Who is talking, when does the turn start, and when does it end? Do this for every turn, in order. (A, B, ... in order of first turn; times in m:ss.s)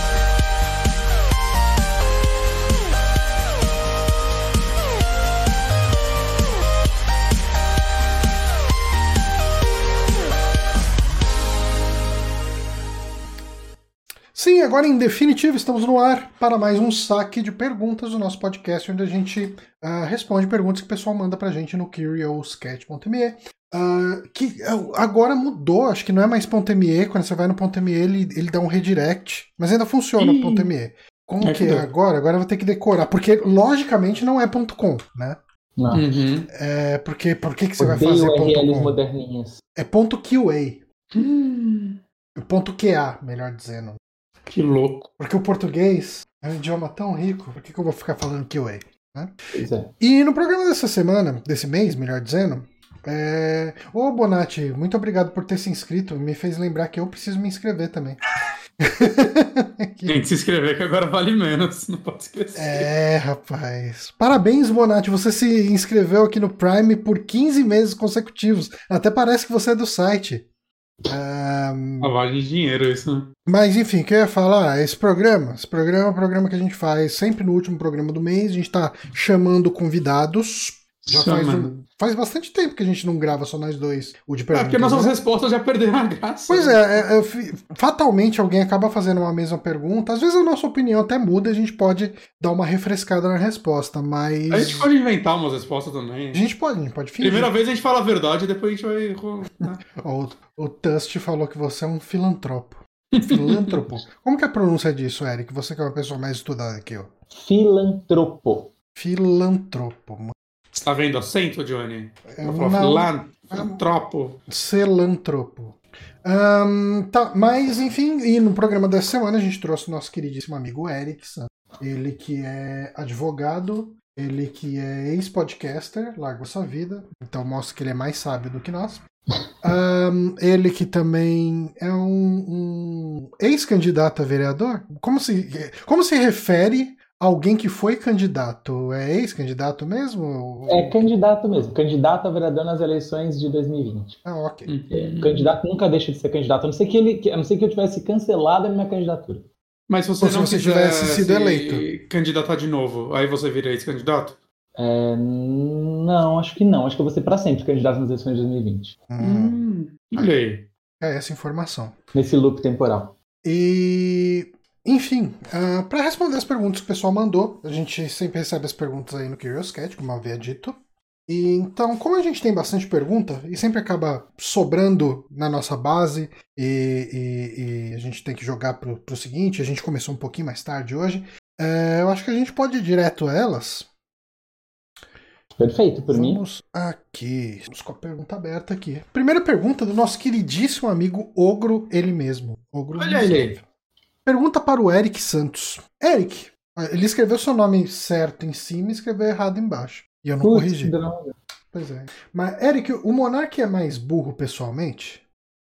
0:14.3-0:35.4 A
0:30.2-0:30.7 B
0:31.4-0:31.9 B
0:35.8-0:36.0 C
0:35.9-0:36.5 B
0:36.5-0:39.0 A
0:37.8-0:39.6 C
0:39.8-0:40.8 A
0:41.1-0:42.0 B
0:42.4-0:44.0 A
0:44.5-0:45.0 B
0:45.2-0:49.3 A
0:49.5-0:49.9 C
0:50.0-0:58.2 A
0:58.8-1:00.2 A
1:00.1-1:02.9 B
1:02.6-1:10.4 A
1:11.1-1:12.1 A
1:12.0-1:13.2 B
1:13.4-1:25.1 A
1:21.1-1:21.7 B
1:24.5-1:27.0 B
1:26.5-1:34.9 A
1:34.5-1:36.4 B
1:36.3-1:37.5 A
1:37.2-1:39.8 B
1:40.0-1:47.1 A
1:43.1-1:43.7 B
1:47.3-1:48.7 C
1:49.0-1:50.4 A
1:50.7-1:54.4 B
1:52.3-1:53.8 A
1:54.5-2:09.0 A
2:09.6-2:21.0 A
2:20.7-2:24.2 C
2:24.2-2:24.7 A
2:24.6-2:25.5 B
2:24.9-2:29.4 C
2:29.9-2:34.4 B
2:30.2-2:31.9 A
2:34.8-2:39.0 C
2:39.1-2:39.6 A
2:39.2-2:40.6 B
2:41.0-2:41.9 A
2:42.1-2:43.1 C
2:43.4-2:50.8 A
2:51.3-3:03.9 A
3:05.6-3:06.4 C
3:06.1-3:13.6 A
3:13.0-3:13.5 B
3:14.2-3:20.9 A
3:20.4-3:21.4 C
3:21.7-3:25.2 A